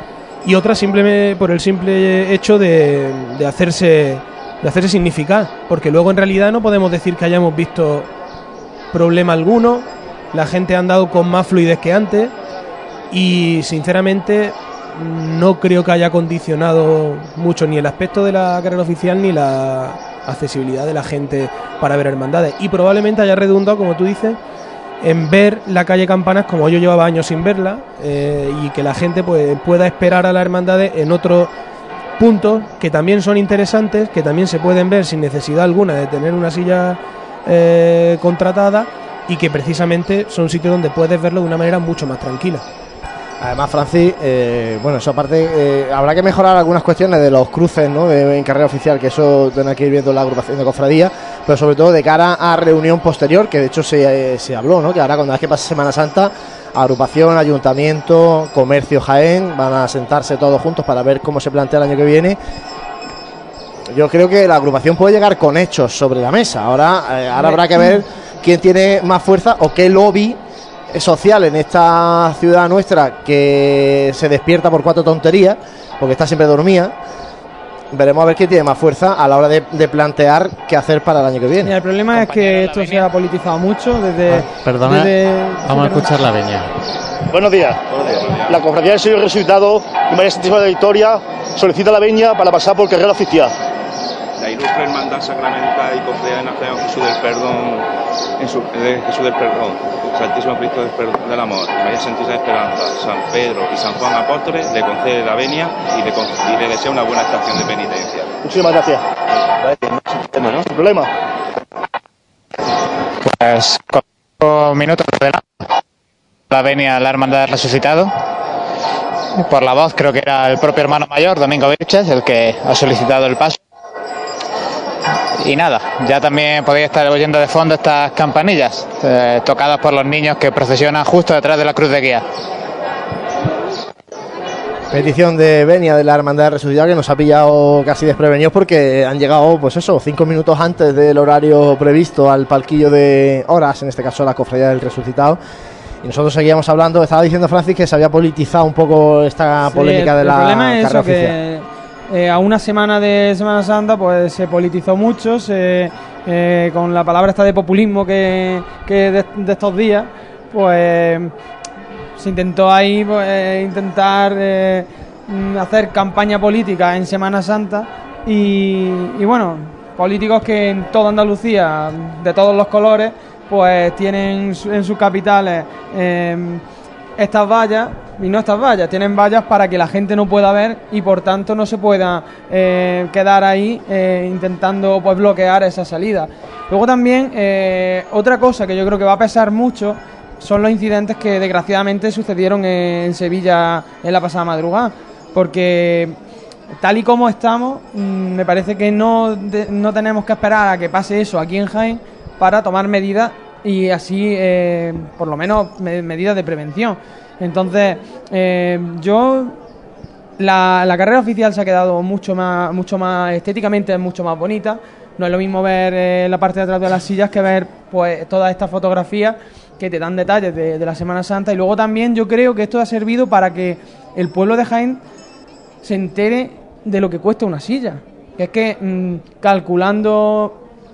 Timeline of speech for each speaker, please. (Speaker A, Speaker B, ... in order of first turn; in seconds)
Speaker A: 0.4-8.1, 8.9-12.3, 13.1-24.4, 25.0-31.5, 32.2-42.6
Speaker B: 43.4-62.4, 63.9-76.9, 77.9-81.7, 134.9-145.4, 146.0-151.3
Speaker C: 67.4-67.9, 81.6-86.1, 149.7-161.3, 162.2-176.6, 177.2-196.2, 196.8-209.6, 210.4-225.0, 225.8-230.6
Speaker D: 82.1-83.1, 113.2-115.4, 116.5-118.1, 119.4-123.6, 125.3-132.2
Speaker E: 84.3-86.7
Speaker F: 87.3-87.7, 88.7-93.5
Speaker G: 87.9-88.7, 94.4-97.8, 98.4-108.3